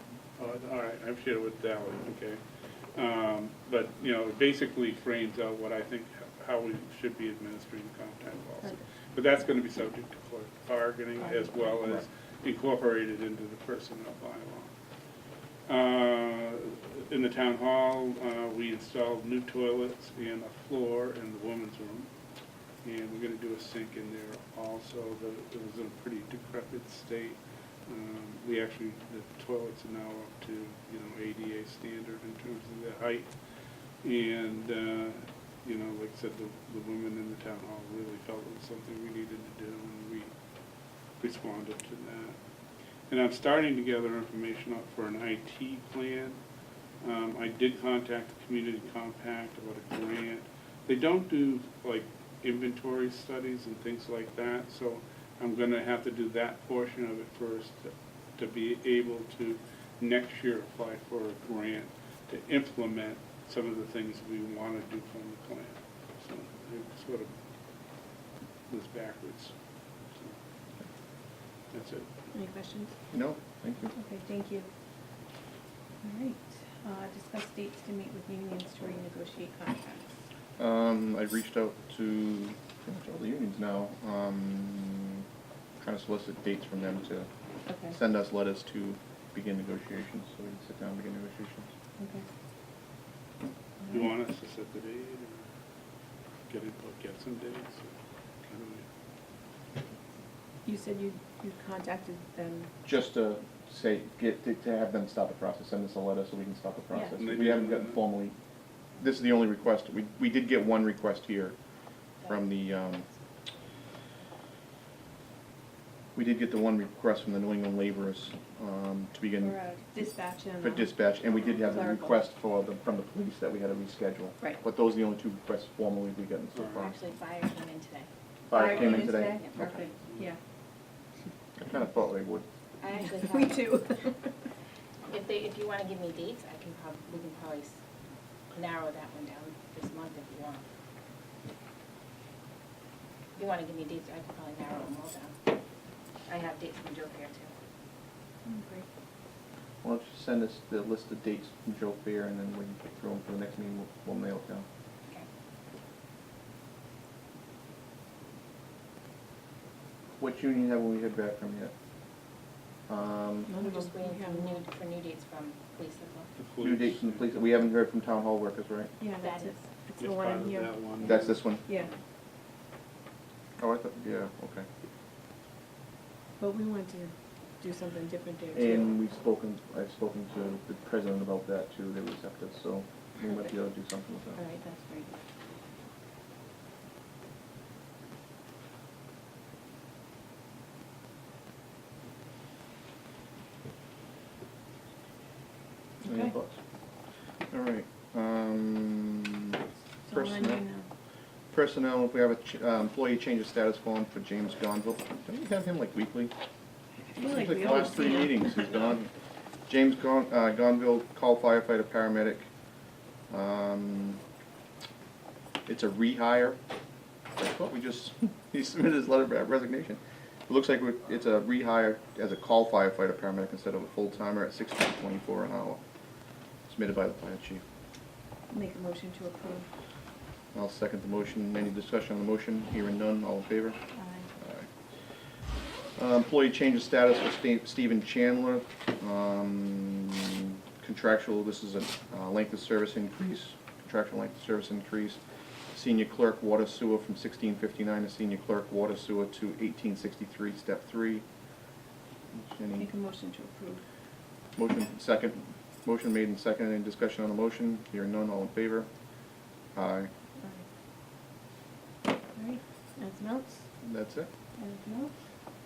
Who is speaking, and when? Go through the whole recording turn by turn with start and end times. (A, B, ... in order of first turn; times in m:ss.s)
0:00.4-0:02.4 A
0:02.9-0:14.7 A
0:11.2-0:11.7 B
0:15.7-0:22.1 A
0:22.8-0:33.3 A
0:34.0-0:40.3 A
0:41.2-0:42.4 A
0:43.1-0:46.4 A
0:47.0-1:07.3 A
1:08.7-1:09.5 A
1:11.7-1:12.1 A
1:12.3-1:12.9 B
1:13.1-1:13.9 C
1:13.9-1:14.7 B
1:16.0-1:20.1 B
1:20.6-1:25.2 C
1:25.8-1:27.3 C
1:27.6-1:28.0 B
1:27.9-1:31.7 C
1:32.0-1:32.2 B
1:33.8-1:34.1 B
1:33.9-1:35.4 A
1:36.5-1:38.8 A
1:40.6-1:42.7 B
1:42.8-1:48.3 C
1:47.2-1:48.0 A
1:49.0-1:51.6 C
1:52.2-1:52.6 D
1:52.2-1:53.0 C
1:56.1-2:06.9 C
1:59.4-2:02.2 B
2:06.5-2:06.8 A
2:06.8-2:08.1 D
2:08.5-2:09.9 C
2:08.5-2:10.4 B
2:08.6-2:09.1 A
2:09.3-2:10.0 D
2:10.0-2:10.3 A
2:11.6-2:12.4 C
2:12.8-2:13.8 D
2:12.9-2:14.3 B
2:15.1-2:17.8 D
2:18.5-2:20.6 D
2:23.4-2:25.5 D
2:26.2-2:27.5 D
2:28.4-2:28.8 B
2:29.8-2:34.6 C
2:40.2-2:41.7 C
2:42.9-2:43.5 C
2:43.4-2:46.3 D
2:43.5-2:44.5 B
2:46.4-2:47.4 A
2:46.6-2:48.9 C
2:49.0-2:51.9 B
2:49.2-2:49.6 D
2:50.0-2:51.4 A
2:51.0-2:51.6 C
2:53.6-2:54.6 C
2:56.4-2:58.9 B
2:58.5-3:04.4 C
3:03.2-3:03.5 B
3:04.4-3:05.2 B
3:16.0-3:16.6 C
3:17.5-3:20.6 C
3:20.0-3:20.8 B
3:21.5-3:26.3 C
3:27.1-3:28.8 B
3:27.2-3:29.1 C
3:29.7-3:32.5 C
3:33.3-3:34.2 C
3:35.6-3:36.6 C
3:37.4-3:45.8 C
3:46.6-3:47.6 C
3:48.5-3:49.7 B
3:50.5-3:53.8 C
3:53.9-3:54.3 B
3:54.4-3:54.7 C
3:56.0-4:05.2 C
4:05.7-4:11.2 C
4:12.3-4:12.9 C
4:12.8-4:13.8 B
4:14.6-4:18.9 C
4:19.7-4:20.1 C
4:20.4-4:20.6 B
4:22.3-4:23.6 B
4:23.8-4:24.3 C
4:24.6-4:25.1 B